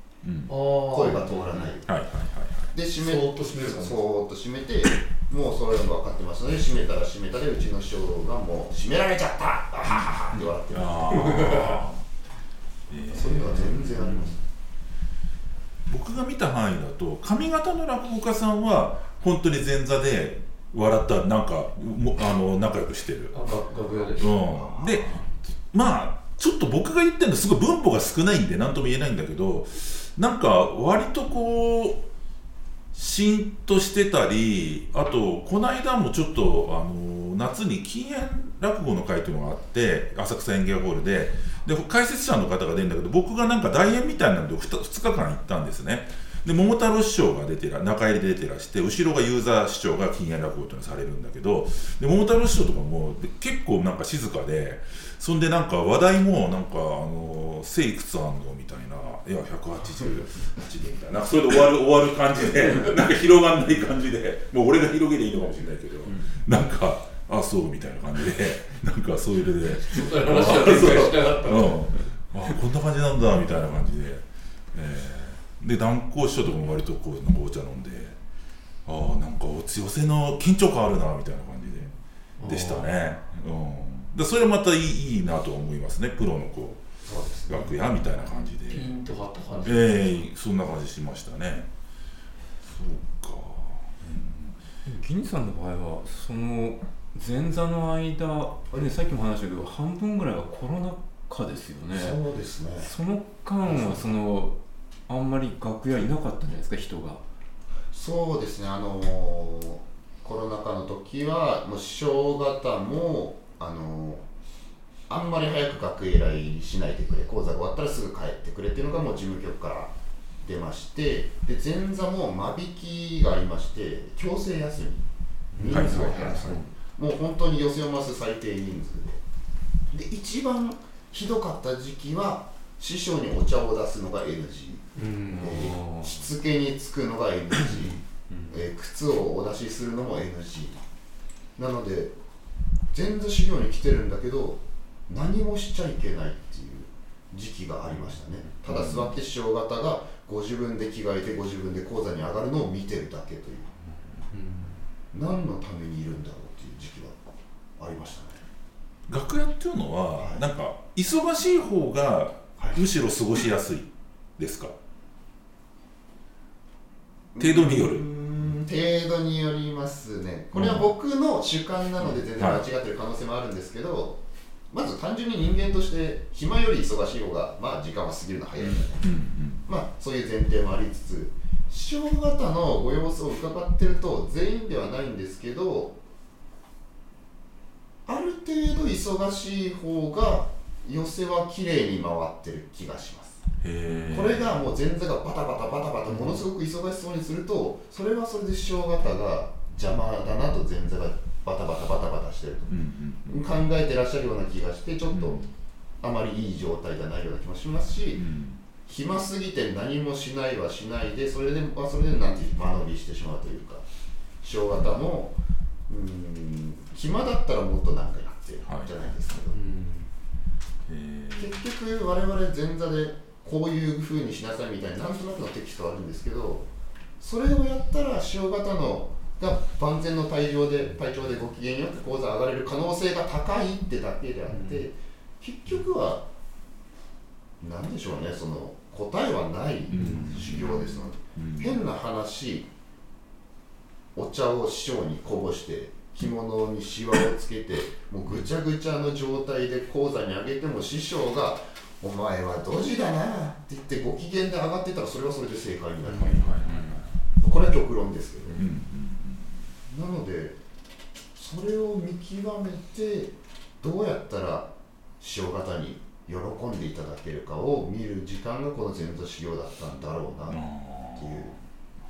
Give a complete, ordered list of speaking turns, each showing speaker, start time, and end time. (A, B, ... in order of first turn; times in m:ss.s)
0:00.2-0:00.6 A
0:00.5-0:01.2 B
0:00.9-0:01.9 C
0:01.4-0:01.7 D
0:01.8-0:02.7 A
0:02.7-0:11.5 C
0:03.0-0:04.0 B
0:09.9-0:12.0 A
0:11.3-0:11.8 B
0:12.9-0:14.1 A
0:13.1-0:14.4 C
0:15.9-0:23.3 A
0:23.3-0:24.3 B
0:23.7-0:25.2 C
0:24.2-0:32.0 A
0:32.9-1:14.2 A
1:09.8-1:11.8 B
1:14.7-1:18.2 A
1:18.8-1:21.9 A
1:22.4-1:22.9 B
1:22.4-1:26.8 A
1:27.0-1:27.8 C
1:27.5-1:28.9 A
1:28.6-1:30.1 B
1:29.6-1:31.7 A
1:32.6-1:34.6 A
1:34.8-1:42.2 D
1:41.9-1:42.9 C
1:42.8-1:44.6 D
1:43.6-1:44.2 C
1:45.1-1:47.2 D
1:47.9-1:54.2 C
1:55.1-1:59.9 C
2:00.4-2:05.0 C
2:05.6-2:05.8 D
2:05.6-2:09.2 C
2:05.6-2:06.7 A
2:05.8-2:06.2 B
2:09.9-2:20.8 C
2:15.0-2:15.5 B
2:15.3-2:16.2 D
2:17.7-2:18.6 D
2:21.6-2:22.1 C
2:22.9-2:33.8 C
2:28.6-2:29.1 A
2:34.3-2:34.8 B
2:35.1-2:37.2 C
2:37.8-2:38.4 C
2:39.1-2:44.7 A
2:40.2-2:40.4 C
2:47.3-2:54.2 C
2:47.4-2:48.0 A
2:50.5-2:50.9 A
2:52.0-2:52.6 A
2:54.7-2:59.1 C
2:58.6-2:59.6 A
2:59.6-3:06.0 C
3:08.0-3:13.4 C
3:13.6-3:14.5 A
3:13.9-3:14.3 D
3:14.1-3:22.7 C
3:22.7-3:23.6 A
3:23.3-3:25.4 C
3:25.1-3:25.5 A
3:26.0-3:28.2 C
3:28.1-3:28.6 A
3:28.8-3:33.8 C
3:34.4-3:35.4 C
3:35.9-3:39.6 C
3:38.6-3:38.9 A
3:39.5-3:40.1 B
3:40.9-3:41.6 A
3:41.4-3:46.6 C
3:47.2-3:56.2 C
3:54.5-3:54.8 B
3:57.6-4:02.7 C
3:59.9-4:01.8 A
4:00.0-4:00.5 B
4:04.1-4:16.5 C
4:16.0-4:16.6 B
4:16.1-4:17.2 A
4:16.6-4:17.0 D
4:17.4-4:18.6 C
4:18.6-4:19.5 A
4:19.9-4:20.6 C
4:21.4-4:31.5 C
4:30.5-4:31.6 A